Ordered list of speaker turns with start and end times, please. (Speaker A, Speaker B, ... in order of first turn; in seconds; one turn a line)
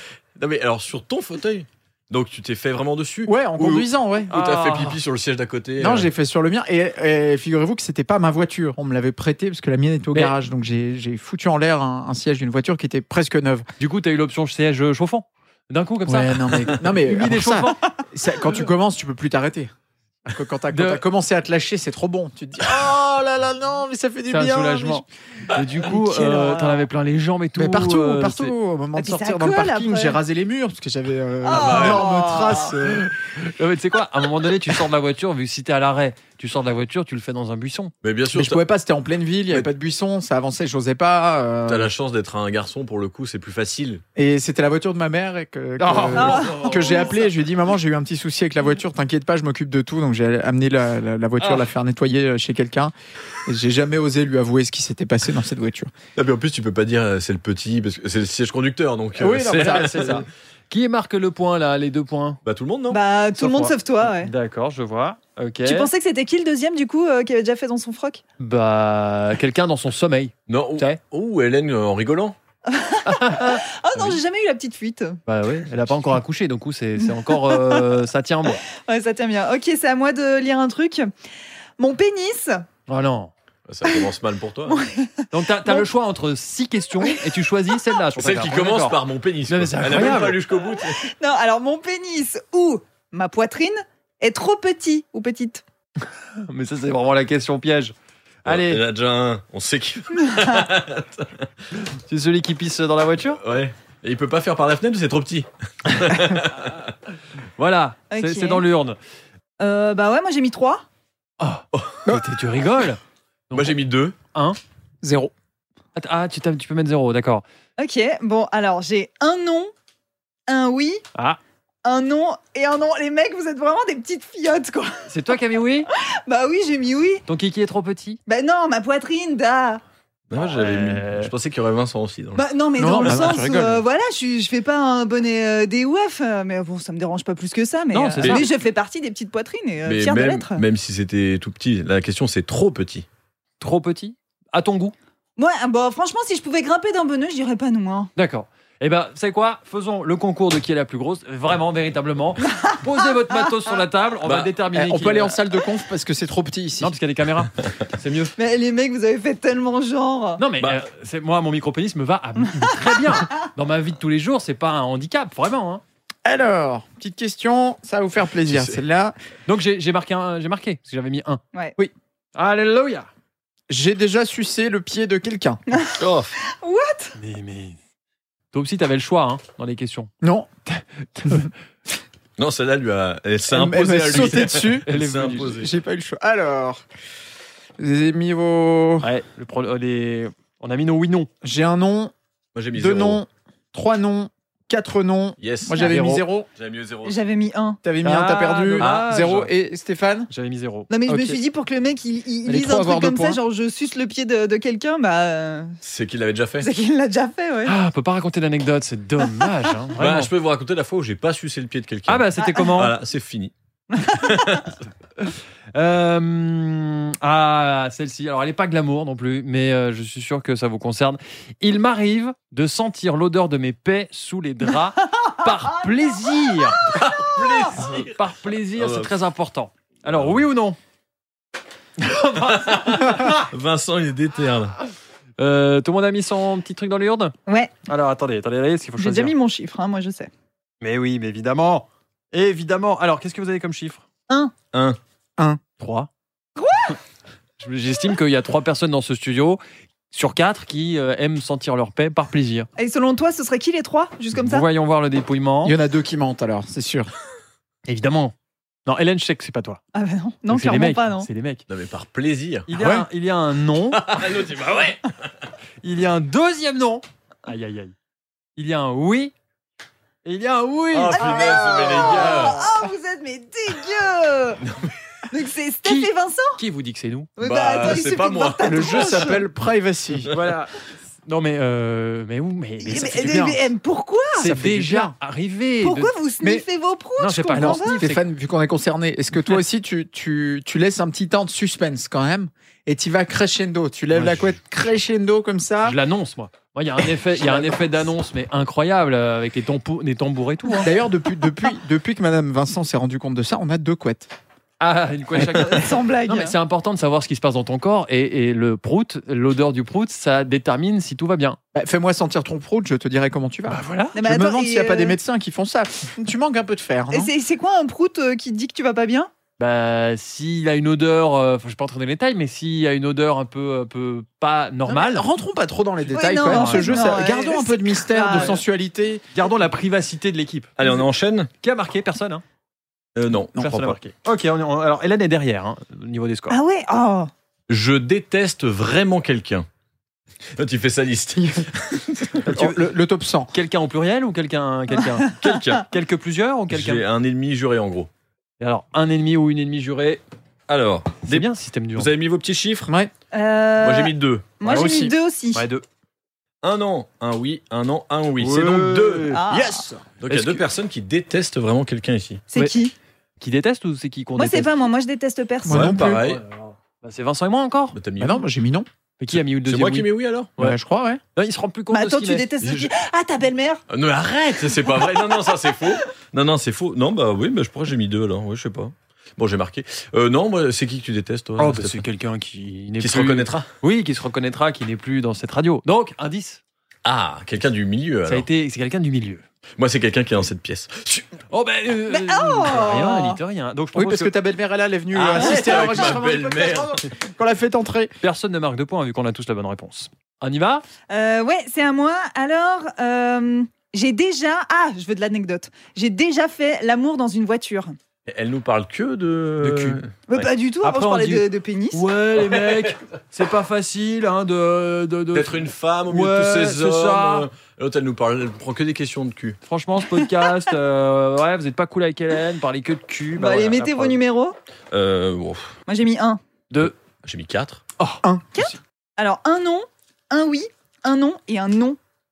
Speaker A: 0.4-6.1
Speaker B: 3.3-4.3
Speaker C: 4.3-5.0
Speaker B: 5.8-13.7
Speaker C: 13.8-17.9
Speaker B: 16.1-19.7
Speaker B: 20.2-25.0
Speaker C: 20.7-21.0
Speaker C: 24.3-28.5
Speaker B: 25.8-26.8
Speaker B: 27.6-33.1
Speaker D: 28.9-30.2
Speaker D: 31.4-32.7
Speaker A: 31.5-32.2
Speaker C: 33.3-37.9
Speaker A: 38.0-38.6
Speaker B: 38.3-41.9
Speaker A: 41.6-44.0
Speaker B: 44.1-52.9
Speaker C: 45.8-47.1
Speaker D: 46.1-46.7
Speaker B: 53.4-55.9
Speaker A: 56.1-60.2
Speaker B: 59.1-60.2
Speaker C: 59.5-62.4
Speaker A: 62.4-63.0
Speaker D: 62.9-64.3
Speaker C: 63.4-65.9
Speaker D: 65.6-68.2
Speaker C: 68.4-71.0
Speaker A: 70.5-72.3
Speaker D: 72.7-75.2
Speaker C: 73.0-74.2
Speaker C: 75.3-78.6
Speaker D: 77.4-77.8
Speaker D: 78.8-81.1
Speaker D: 81.8-82.7
Speaker C: 82.9-83.3
Speaker A: 83.7-84.8
Speaker D: 84.7-85.8
Speaker C: 85.3-90.4
Speaker A: 88.2-91.1
Speaker D: 91.0-95.6
Speaker C: 96.4-97.9
Speaker C: 98.4-98.8
Speaker A: 98.5-101.4
Speaker C: 102.1-103.4
Speaker A: 103.4-106.8
Speaker C: 107.6-109.0
Speaker D: 108.1-108.6
Speaker D: 109.6-110.8
Speaker C: 111.4-113.0
Speaker A: 111.7-112.0
Speaker C: 113.5-114.6
Speaker A: 113.5-114.2
Speaker B: 115.0-115.3
Speaker C: 116.0-117.4
Speaker D: 117.8-119.7
Speaker D: 120.5-121.0
Speaker D: 121.8-125.1
Speaker C: 125.1-125.9
Speaker D: 126.2-127.2
Speaker C: 127.3-128.2
Speaker D: 128.3-129.8
Speaker A: 130.3-132.4
Speaker C: 130.4-131.3
Speaker D: 132.3-140.6
Speaker B: 132.8-133.8
Speaker C: 137.9-138.5
Speaker A: 138.2-138.4
Speaker A: 139.8-143.1
Speaker C: 143.6-144.9
Speaker D: 145.4-148.1
Speaker C: 148.2-155.3
Speaker A: 154.2-154.5
Speaker B: 154.7-156.9
Speaker C: 156.8-158.3
Speaker D: 158.3-160.4
Speaker C: 160.4-165.8
Speaker B: 166.2-169.1
Speaker A: 168.4-168.8
Speaker C: 169.5-171.4
Speaker C: 172.3-173.1
Speaker B: 173.7-175.6
Speaker D: 175.7-176.0
Speaker A: 176.0-176.3
Speaker D: 176.5-177.1
Speaker C: 177.2-177.8
Speaker C: 178.5-180.1
Speaker B: 180.2-180.5
Speaker C: 180.7-181.5
Speaker A: 182.4-185.7
Speaker B: 183.5-186.8
Speaker C: 184.1-185.7
Speaker B: 187.8-189.1
Speaker C: 189.0-191.3
Speaker B: 191.4-192.1
Speaker A: 192.5-193.2
Speaker B: 192.7-196.5
Speaker A: 195.4-195.8
Speaker C: 195.8-196.2
Speaker A: 196.5-197.2
Speaker D: 197.0-197.8
Speaker B: 197.8-200.3
Speaker C: 198.0-199.5
Speaker A: 198.8-199.2
Speaker C: 200.3-200.9
Speaker D: 200.9-205.8
Speaker B: 201.1-201.4
Speaker B: 202.4-203.4
Speaker A: 205.8-206.7
Speaker D: 206.6-207.8
Speaker C: 207.6-210.3
Speaker A: 210.0-213.5
Speaker C: 212.1-212.9
Speaker D: 212.4-212.7
Speaker D: 213.9-214.4
Speaker A: 214.1-214.8
Speaker C: 215.2-227.1
Speaker A: 226.9-228.2
Speaker C: 227.7-230.8
Speaker A: 228.8-229.1
Speaker A: 230.1-230.4
Speaker C: 232.0-233.3
Speaker A: 232.3-234.7
Speaker C: 235.4-237.3
Speaker D: 237.5-237.7
Speaker C: 237.8-239.3
Speaker D: 239.0-240.3
Speaker C: 240.8-244.0
Speaker A: 244.7-245.0
Speaker C: 245.8-246.1
Speaker D: 246.6-246.9
Speaker C: 247.6-249.6
Speaker C: 250.1-252.7
Speaker D: 252.8-254.6
Speaker C: 254.3-255.8
Speaker B: 255.6-257.1
Speaker C: 257.9-258.3
Speaker C: 258.9-259.8
Speaker D: 259.9-261.3
Speaker C: 260.5-261.6
Speaker A: 261.7-262.7
Speaker C: 262.7-264.1
Speaker B: 262.7-263.1
Speaker A: 263.9-265.1
Speaker C: 265.8-267.9
Speaker C: 268.6-269.3
Speaker C: 270.2-272.4
Speaker A: 270.9-272.6
Speaker D: 271.1-274.6
Speaker A: 274.6-274.9
Speaker D: 275.3-276.6
Speaker C: 275.8-277.3
Speaker D: 277.4-279.4
Speaker A: 277.4-279.4
Speaker B: 278.6-280.3
Speaker C: 280.3-283.5
Speaker D: 282.8-284.5
Speaker B: 282.9-283.6
Speaker C: 284.3-286.1
Speaker B: 284.4-285.1
Speaker D: 285.8-288.0
Speaker B: 286.4-286.6
Speaker C: 287.2-288.2
Speaker B: 287.5-296.0
Speaker C: 294.1-294.6
Speaker C: 295.8-300.9
Speaker B: 297.2-298.0
Speaker B: 300.8-304.3
Speaker C: 304.8-311.6
Speaker B: 305.4-305.7
Speaker D: 305.4-306.5
Speaker B: 311.7-317.3
Speaker C: 313.7-314.1
Speaker D: 314.1-315.1
Speaker D: 317.1-319.3
Speaker C: 319.6-325.3
Speaker B: 324.9-329.2
Speaker D: 326.1-328.6
Speaker C: 326.4-327.2
Speaker C: 328.3-328.6
Speaker C: 329.3-330.8
Speaker A: 330.8-331.5
Speaker C: 331.6-332.4
Speaker A: 333.1-334.0
Speaker C: 333.6-336.6
Speaker D: 336.5-337.3
Speaker A: 337.7-339.7
Speaker A: 340.6-342.4
Speaker B: 341.4-341.7
Speaker B: 342.4-343.5
Speaker C: 342.4-342.9
Speaker C: 343.5-347.0
Speaker A: 345.3-345.8
Speaker A: 346.7-348.1
Speaker C: 348.6-350.2
Speaker A: 350.7-352.9
Speaker C: 351.3-352.1
Speaker D: 353.3-355.6
Speaker A: 353.8-354.6
Speaker B: 354.6-355.1
Speaker C: 355.5-355.8
Speaker A: 356.6-362.4
Speaker C: 358.4-359.4
Speaker D: 359.3-359.9
Speaker C: 360.3-360.6
Speaker D: 362.5-362.9
Speaker C: 363.4-364.7
Speaker D: 364.4-365.9
Speaker B: 365.6-366.2
Speaker A: 365.7-366.4
Speaker C: 366.0-368.0
Speaker A: 367.9-368.4
Speaker B: 368.2-368.9
Speaker C: 369.2-370.8
Speaker A: 369.3-370.5
Speaker B: 370.6-371.2
Speaker C: 371.4-372.5
Speaker D: 371.9-373.8
Speaker A: 372.6-372.9
Speaker A: 373.9-382.0
Speaker C: 381.6-386.6
Speaker A: 383.0-383.7
Speaker A: 387.0-388.4
Speaker C: 388.2-389.4
Speaker A: 389.8-391.3
Speaker C: 391.5-394.3
Speaker D: 392.1-393.4
Speaker B: 393.9-398.1
Speaker A: 395.1-397.0
Speaker D: 395.4-395.9
Speaker C: 398.2-400.8
Speaker D: 401.1-407.9
Speaker A: 408.2-410.4
Speaker C: 409.6-410.0
Speaker D: 410.3-412.0
Speaker C: 410.8-417.5
Speaker A: 412.4-413.0
Speaker A: 415.3-419.6
Speaker C: 419.7-424.2
Speaker D: 423.4-424.6
Speaker A: 424.9-425.7
Speaker D: 425.9-426.4
Speaker A: 426.8-427.8
Speaker B: 428.2-428.7
Speaker D: 428.5-432.0